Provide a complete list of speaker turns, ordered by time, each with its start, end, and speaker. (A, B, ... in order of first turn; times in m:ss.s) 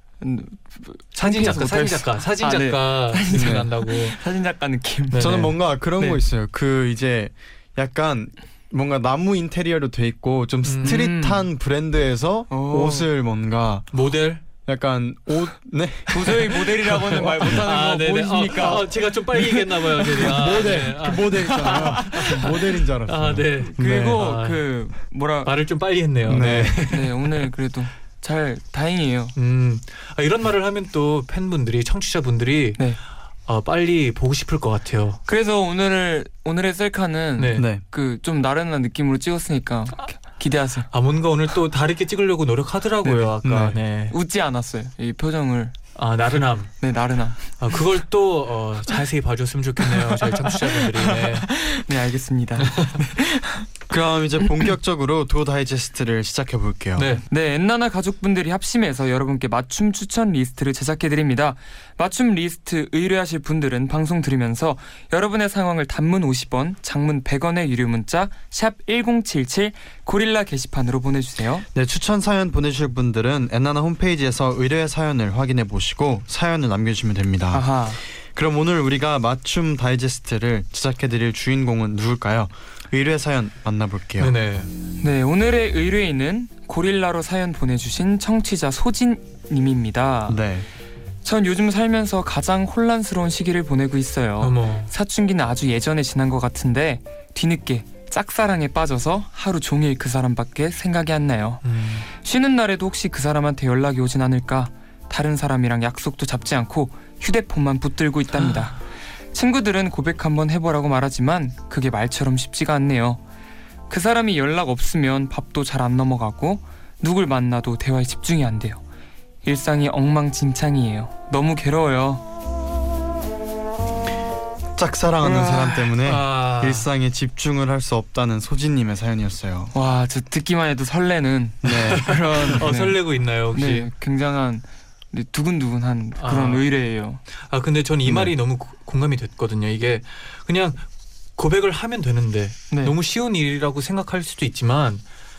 0:00.2-0:05.4 A
0:01.2-0:04.2 B
0:03.3-0:03.7 C
0:05.1-0:05.5 B
0:05.2-0:13.9 C
0:10.7-0:11.1 B
0:10.8-0:11.5 A
0:12.5-0:13.1 A
0:13.9-0:14.4 B
0:14.4-0:16.6 C
0:16.1-0:22.5 A
0:16.8-0:24.6 B
0:17.2-0:17.6 C
0:20.2-0:24.2 C
0:23.6-0:25.5 A
0:25.4-0:27.5 B
0:26.3-0:26.9 C
0:26.8-0:29.4 A
0:29.4-0:32.9 B
0:33.5-0:35.2 B
0:35.3-0:40.9 A
0:37.4-0:37.7 B
0:37.6-0:37.8 C
0:40.9-0:44.2 B
0:43.0-0:43.3 A
0:43.4-0:43.8 C
0:44.1-0:45.8 A
0:46.0-0:46.7 B
0:46.8-0:47.4 A
0:47.6-0:51.5 B
0:49.9-0:53.7 A
0:52.6-0:53.0 B
0:53.9-0:57.1 C
0:57.0-0:57.2 B
0:57.3-1:11.6 A
1:11.7-1:24.3 C
1:17.5-1:18.0 A
1:24.2-1:24.7 B
1:25.0-1:30.4 A
1:30.3-1:30.7 C
1:31.2-1:48.8 A
1:34.4-1:34.9 B
1:41.6-1:42.1 B
1:49.3-1:53.2 A
1:53.9-1:58.8 A
1:59.4-2:02.2 A
2:04.8-2:09.7 C
2:05.2-2:05.9 A
2:06.0-2:06.9 B
2:09.7-2:13.0 A
2:11.6-2:12.1 C
2:11.9-2:13.9 B
2:13.5-2:17.2 A
2:16.2-2:16.7 B
2:17.3-2:20.8 B
2:18.1-2:18.3 C
2:21.4-2:25.0 B